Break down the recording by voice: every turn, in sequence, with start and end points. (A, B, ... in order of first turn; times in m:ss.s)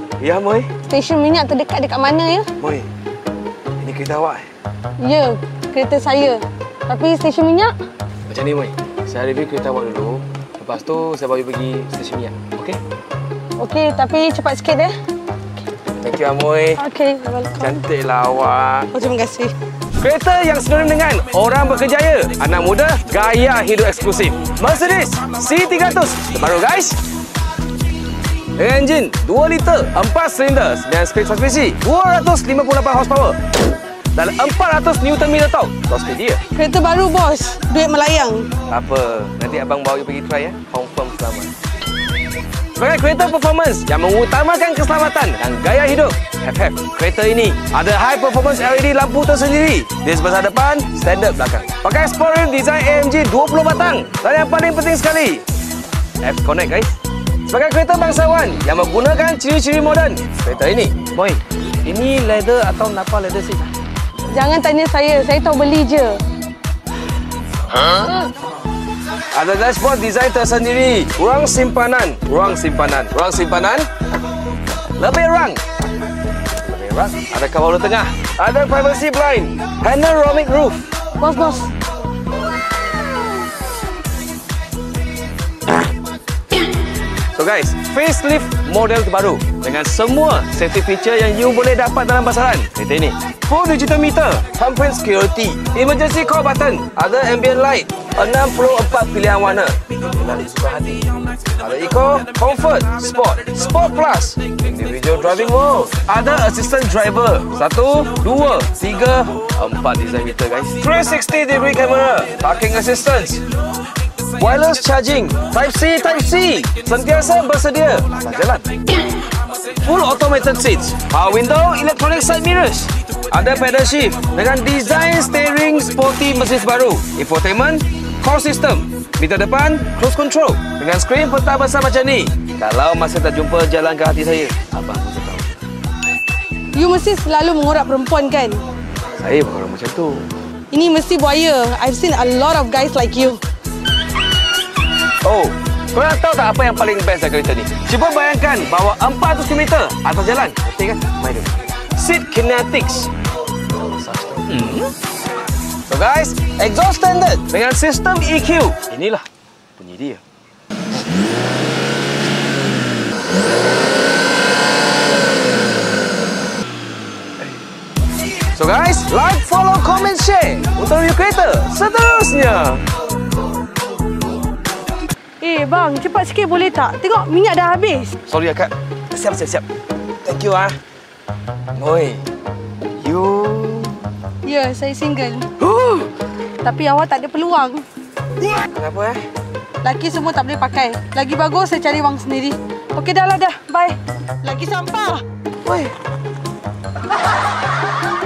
0:00.2-0:00.7 A
0:00.9-0:02.5 B
0:02.6-0:02.9 A
0:03.8-0:04.5 A
0:05.0-0:07.7 B
0:08.2-0:12.8 A
0:13.6-0:14.9 B
0:16.0-0:16.8 A
0:16.8-0:17.8 B
0:17.6-0:18.9 A
0:18.9-0:19.5 B
0:20.0-0:27.0 A
0:28.6-0:33.4 A
0:34.1-0:36.4 A
0:36.5-0:38.5 B
0:38.7-0:41.5 A
0:42.8-0:55.4 A
0:56.2-0:57.0 A
0:57.5-1:03.7 A
1:04.3-1:06.2 B
1:07.7-1:08.1 A
1:09.3-1:13.9 A
1:15.0-1:15.6 A
1:16.6-1:20.9 A
1:21.2-1:21.7 B
1:27.3-1:53.4 A
1:54.4-1:58.7 A
1:59.8-2:15.6 A
2:16.7-2:18.6 B
2:19.2-2:20.2 A
2:20.7-2:23.4 B
2:25.2-2:33.1 A
2:34.0-2:34.9 A
2:35.9-2:39.2 A
2:39.8-2:40.2 A
2:48.5-2:52.8 A
2:55.4-2:58.1 B
2:58.2-2:59.6 A
3:00.2-3:00.8 A
3:01.8-3:02.2 A
3:03.0-3:04.0 A
3:04.4-3:05.5 B
3:05.6-3:06.1 A
3:06.6-3:07.8 B
3:08.4-3:09.2 A
3:09.8-3:15.2 B
3:15.6-3:15.9 A